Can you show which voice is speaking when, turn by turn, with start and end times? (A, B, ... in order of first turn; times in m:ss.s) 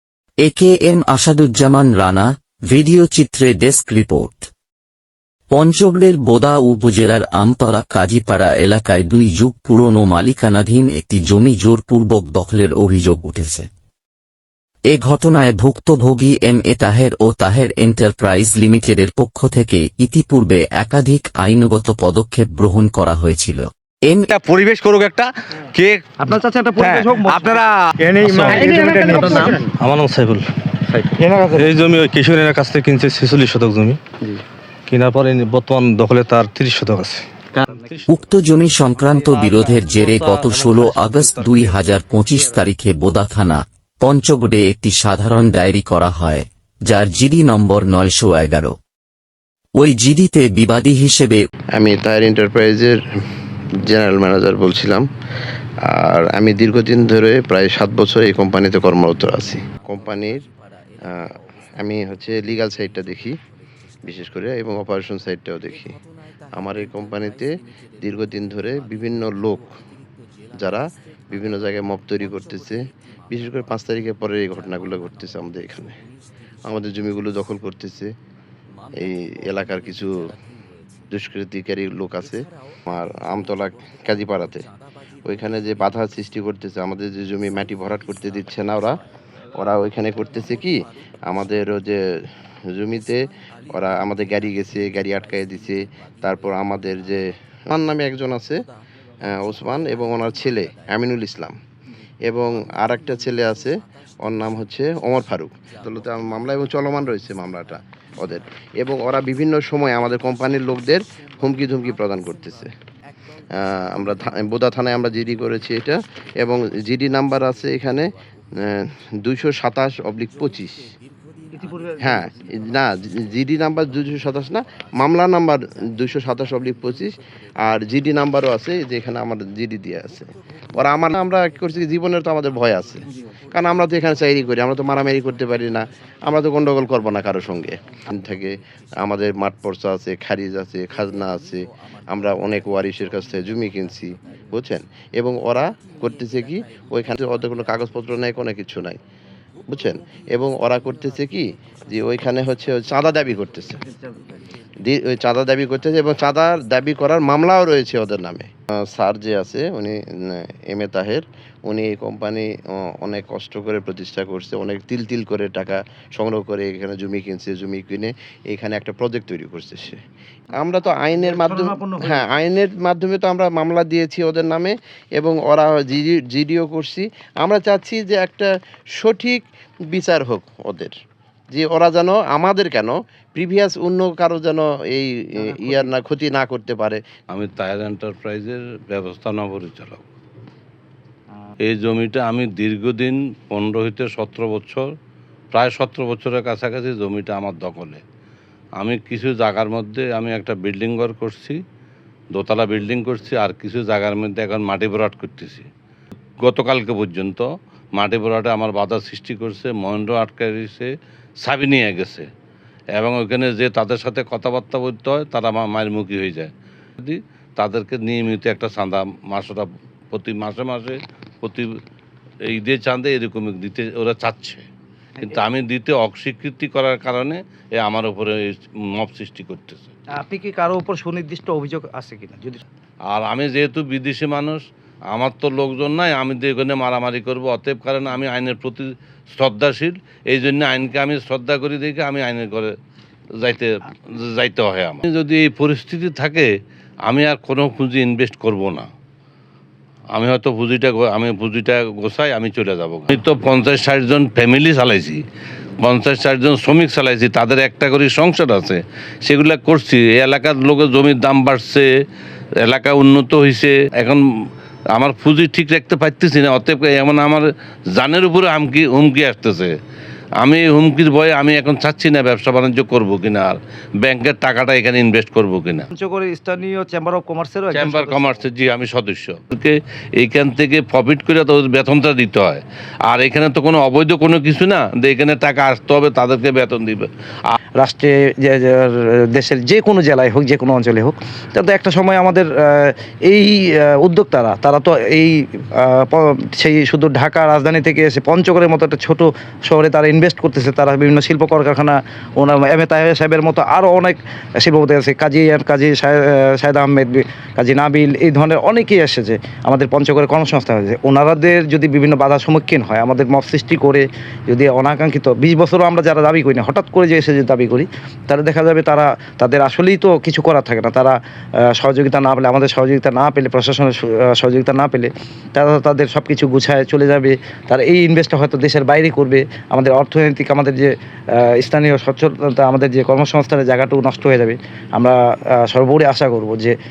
0:00.4-0:04.5 A
0:05.5-0:13.7 A
0:14.9-0:24.3 A
0:24.3-0:26.1 B
0:26.2-0:29.6 C
0:26.8-0:29.6 B
0:28.3-0:28.6 D
0:29.3-0:30.4 D
0:31.0-0:31.6 B
0:31.2-0:31.6 C
0:31.6-0:34.0 D
0:34.9-0:37.2 D
0:38.1-0:48.8 A
0:39.2-0:41.8 D
0:49.8-0:51.4 A
0:51.8-0:53.0 E
0:53.9-0:55.1 E
0:55.9-1:00.4 E
1:01.1-1:03.4 E
1:04.0-1:06.0 E
1:06.6-1:07.5 E
1:08.0-1:09.7 E
1:10.5-1:16.0 E
1:16.6-1:18.1 E
1:18.9-1:20.3 E
1:21.1-1:24.7 E
1:25.2-1:29.0 E
1:29.6-1:32.0 E
1:32.7-1:38.7 E
1:39.3-1:41.6 E
1:42.2-1:52.7 E
1:53.6-1:58.1 E
1:58.6-2:00.9 E
2:01.5-2:02.2 C
2:02.0-2:29.0 E
2:29.7-2:33.8 E
2:34.8-2:50.0 E
2:50.6-3:00.9 E
2:51.1-2:52.2 C
3:01.5-3:07.0 E
3:05.4-3:05.9 C
3:07.3-3:10.0 F
3:11.6-3:14.9 F
3:15.5-3:18.0 F
3:18.8-3:21.6 F
3:22.4-3:25.7 F
3:26.4-3:30.9 F
3:31.4-3:32.3 F
3:33.0-3:41.7 F
3:42.5-3:44.6 F
3:45.3-3:49.9 F
3:50.2-3:52.6 C
3:53.1-4:02.7 F
4:03.4-4:06.5 F
4:07.1-4:08.9 F
4:10.2-4:15.2 F
4:15.8-4:21.9 F
4:22.6-4:24.2 F
4:25.0-4:29.7 F
4:30.4-4:35.9 F
4:35.9-4:38.4 C
4:37.7-4:47.6 F
4:47.8-5:21.2 C
5:21.7-5:36.8 C